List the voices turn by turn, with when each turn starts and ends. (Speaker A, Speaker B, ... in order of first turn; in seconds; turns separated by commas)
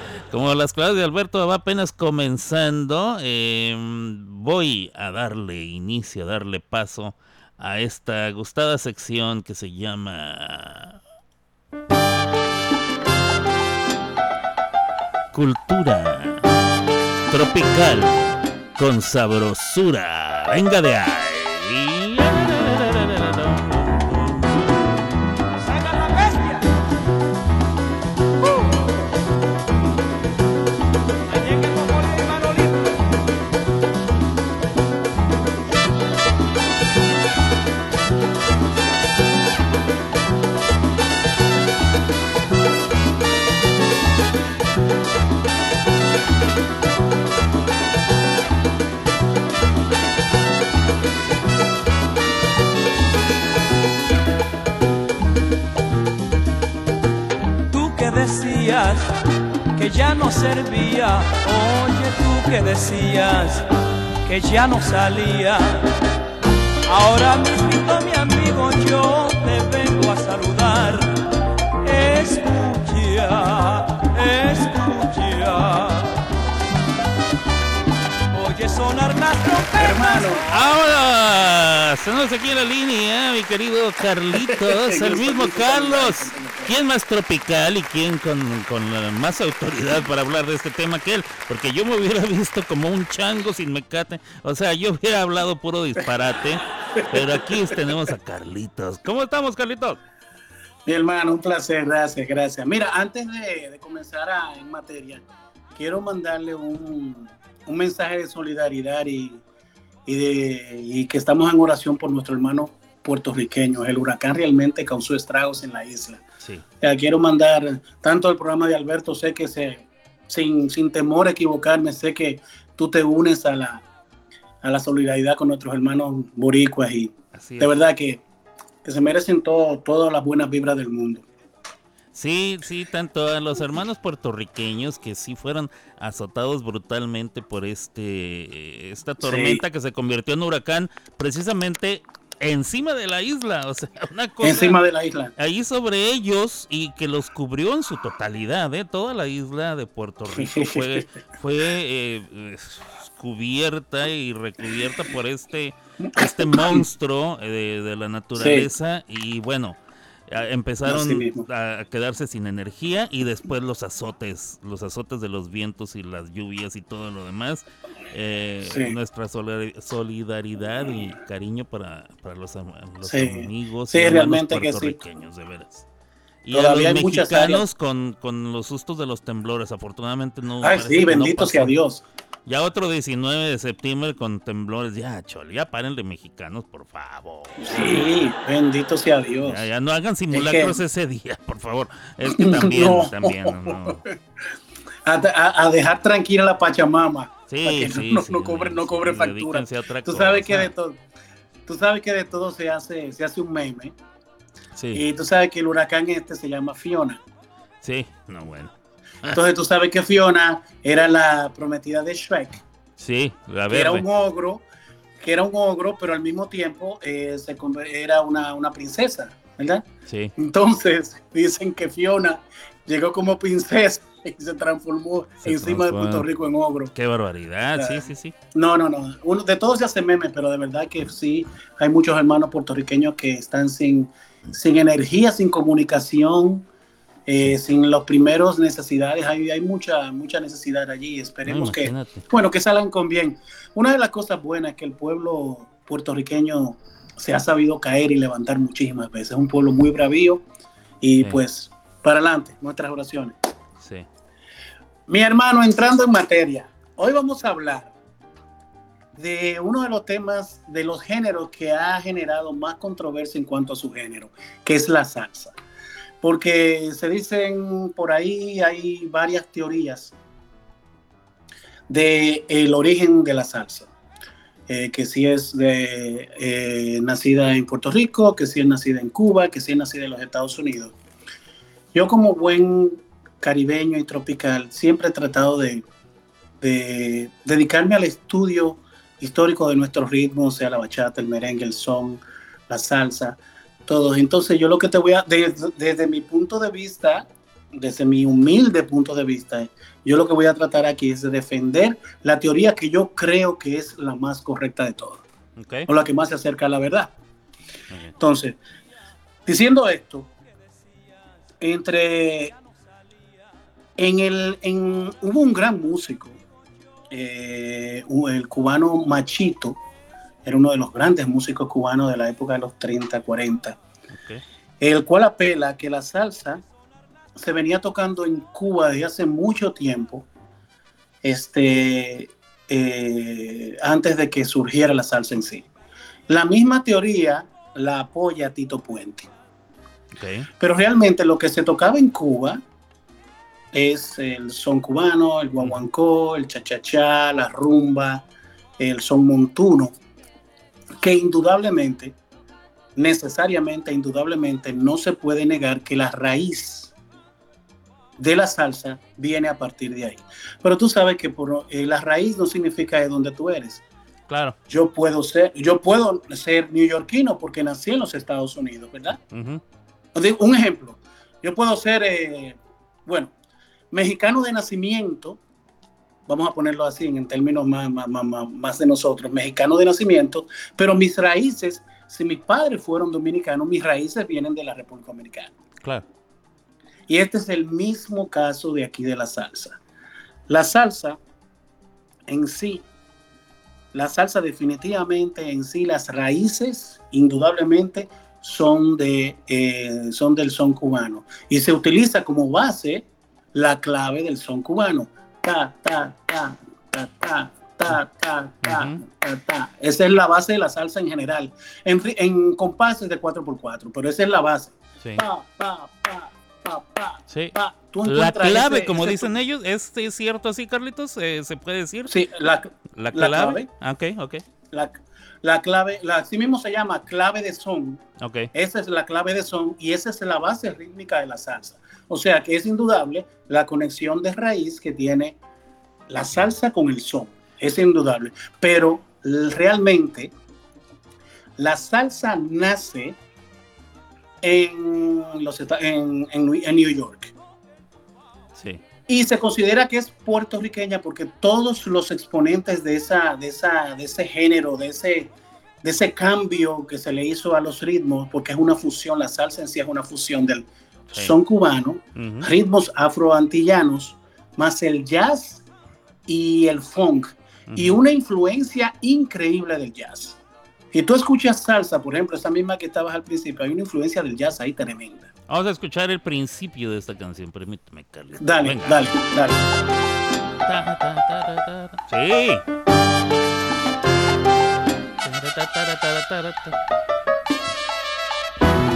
Speaker A: 0.3-11.0, Speaker A: 15.3-16.5, Speaker A: 17.3-18.2, Speaker A: 18.8-24.9, Speaker B: 25.6-26.6, Speaker B: 31.3-32.9, Speaker B: 57.7-59.1, Speaker B: 59.8-63.7, Speaker B: 64.3-65.9, Speaker B: 66.9-71.2, Speaker B: 71.8-76.2, Speaker B: 78.3-80.5, Speaker C: 79.8-80.4, Speaker A: 80.5-100.0, Speaker C: 84.4-86.7, Speaker C: 100.9-105.2, Speaker C: 105.8-109.4, Speaker C: 110.1-116.2, Speaker C: 116.8-123.8, Speaker C: 124.6-128.2, Speaker A: 127.3-127.7, Speaker C: 128.8-131.2, Speaker A: 132.1-144.8, Speaker C: 139.2-139.6, Speaker C: 144.4-145.3, Speaker A: 145.4-159.8, Speaker C: 150.3-151.1, Speaker C: 156.5-156.8, Speaker C: 158.3-158.7, Speaker A: 160.3-175.8, Speaker C: 160.9-161.4, Speaker C: 168.7-168.9, Speaker C: 173.0-175.0, Speaker A: 176.4-181.7, Speaker C: 176.5-177.7, Speaker C: 180.6-182.0, Speaker A: 182.5-188.1, Speaker C: 187.6-189.6, Speaker A: 189.4-194.0, Speaker C: 190.3-190.8, Speaker C: 192.3-194.1, Speaker C: 195.0-201.0, Speaker A: 197.5-200.7, Speaker C: 201.7-203.9, Speaker A: 204.8-205.0, Speaker C: 204.9-207.2, Speaker A: 207.8-209.4, Speaker C: 209.3-212.6, Speaker A: 213.0-214.0, Speaker C: 213.7-214.6, Speaker C: 215.2-219.8, Speaker A: 220.1-220.3, Speaker C: 220.4-226.9, Speaker A: 225.4-226.2, Speaker A: 226.9-228.3, Speaker C: 227.8-236.7, Speaker C: 237.3-250.4, Speaker A: 241.4-242.3, Speaker C: 251.0-253.4, Speaker A: 253.8-254.1, Speaker C: 255.1-257.9, Speaker C: 259.1-265.6, Speaker C: 266.2-270.1, Speaker C: 271.9-273.9, Speaker C: 274.7-280.9, Speaker C: 281.9-285.8, Speaker C: 286.6-305.2, Speaker A: 305.6-305.9, Speaker C: 305.9-307.1, Speaker C: 308.2-308.6, Speaker C: 309.4-310.3, Speaker C: 311.6-312.5, Speaker C: 314.0-316.4, Speaker C: 317.1-319.8, Speaker C: 320.4-323.8, Speaker A: 324.1-324.4, Speaker C: 324.8-326.6, Speaker C: 327.4-330.3, Speaker C: 331.2-335.7, Speaker C: 336.3-339.3, Speaker A: 340.1-340.5, Speaker C: 340.6-342.6, Speaker C: 343.7-348.2, Speaker C: 348.8-349.9, Speaker C: 351.0-352.1, Speaker C: 352.9-356.9, Speaker C: 358.2-363.8, Speaker A: 364.3-364.6, Speaker C: 364.7-369.2, Speaker A: 369.3-369.6, Speaker C: 370.1-373.3, Speaker C: 373.9-375.4, Speaker C: 376.3-385.5, Speaker C: 387.1-389.8, Speaker C: 390.5-391.2, Speaker C: 392.3-392.8, Speaker C: 393.9-419.3, Speaker A: 408.6-409.0, Speaker A: 417.3-422.1, Speaker C: 422.1-423.7, Speaker A: 422.9-424.4, Speaker C: 424.7-428.0, Speaker A: 428.2-428.5, Speaker C: 428.5-435.4, Speaker C: 436.1-440.3, Speaker C: 441.6-443.2, Speaker C: 444.4-447.3, Speaker C: 449.1-455.3, Speaker C: 455.8-465.6, Speaker A: 462.1-462.5, Speaker C: 466.3-470.4, Speaker A: 467.7-467.9, Speaker C: 470.9-475.3, Speaker A: 475.5-479.1, Speaker C: 478.4-479.6, Speaker A: 480.6-482.6, Speaker A: 485.2-486.8